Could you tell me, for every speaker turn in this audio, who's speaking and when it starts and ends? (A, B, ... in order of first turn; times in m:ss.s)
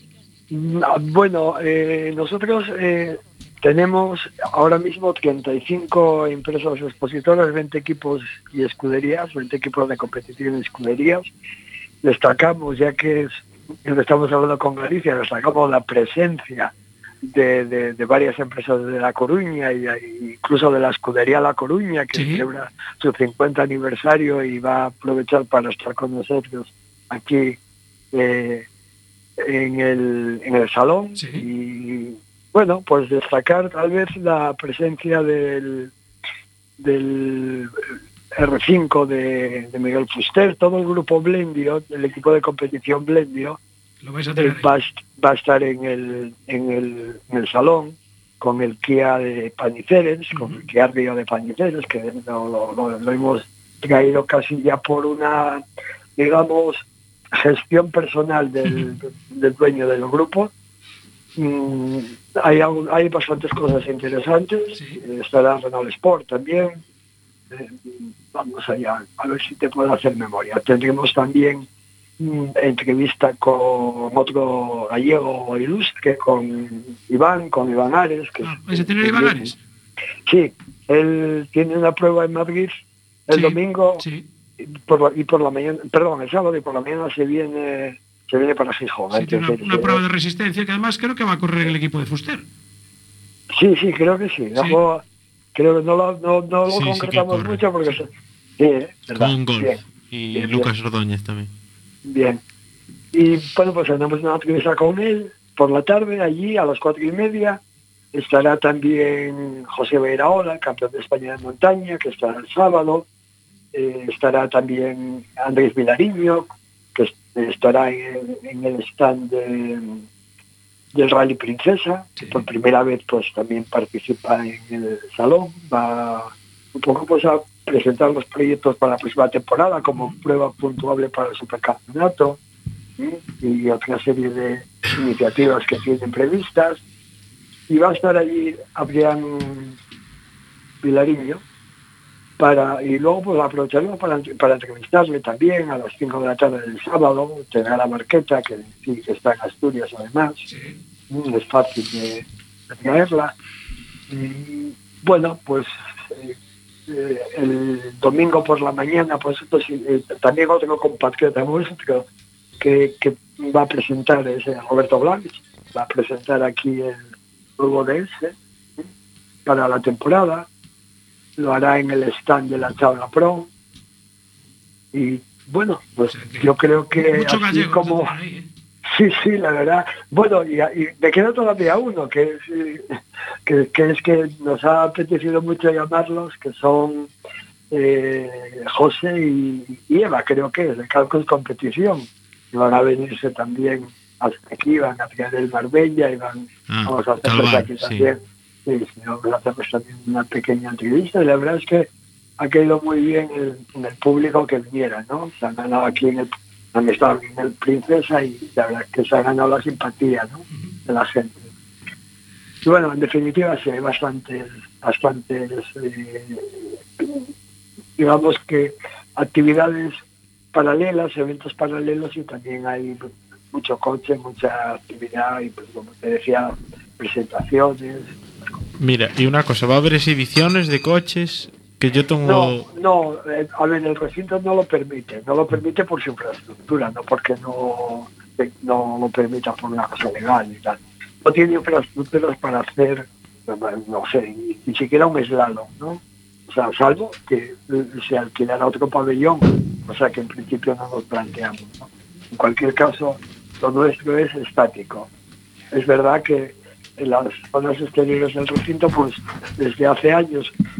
0:00.5-0:11.3 A
0:12.0-0:13.3 A
0:13.8-0:16.7 A
0:17.3-0:27.6 A
0:22.1-0:22.4 B
0:28.1-0:28.6 A
0:29.4-0:35.9 A
0:31.2-0:31.4 B
0:36.8-0:37.7 A
0:38.3-0:43.6 A
0:44.0-0:44.7 B
0:44.4-0:55.6 A
0:50.3-0:50.6 B
0:56.2-1:00.5 A
1:01.4-1:06.8 A
1:04.7-1:05.0 B
1:07.5-1:11.6 A
1:12.2-1:19.5 A
1:18.4-1:19.6 B
1:20.3-1:24.0 A
1:23.3-1:24.2 B
1:24.6-1:30.0 A
1:29.1-1:32.4 B
1:33.5-1:35.0 A
1:35.5-1:39.8 A
1:36.7-1:37.7 C
1:39.1-1:41.5 C
1:40.3-1:40.7 A
1:42.0-1:42.4 A
1:43.1-1:47.6 A
1:48.1-1:53.1 A
1:53.7-2:00.0 A
2:00.9-2:12.4 A
2:02.2-2:02.4 B
2:13.0-2:16.8 A
2:17.7-2:19.8 A
2:20.8-2:21.4 A
2:22.4-2:30.4 A
2:30.5-2:30.8 B
2:31.1-2:33.3 A
2:34.1-2:36.3 A
2:36.9-2:42.0 A
2:42.6-2:47.0 A
2:47.6-2:48.4 A
2:49.4-2:50.5 A
2:51.4-2:53.5 A
2:54.9-2:58.1 A
2:56.1-2:58.5 B
2:58.9-3:02.8 A
3:03.4-3:07.1 A
3:07.7-3:31.5 A
3:16.7-3:18.1 C
3:32.6-3:37.2 A
3:38.0-3:40.0 A
3:40.5-3:48.1 A
3:48.8-3:52.7 C
3:52.2-4:15.1 A
4:15.7-4:20.5 A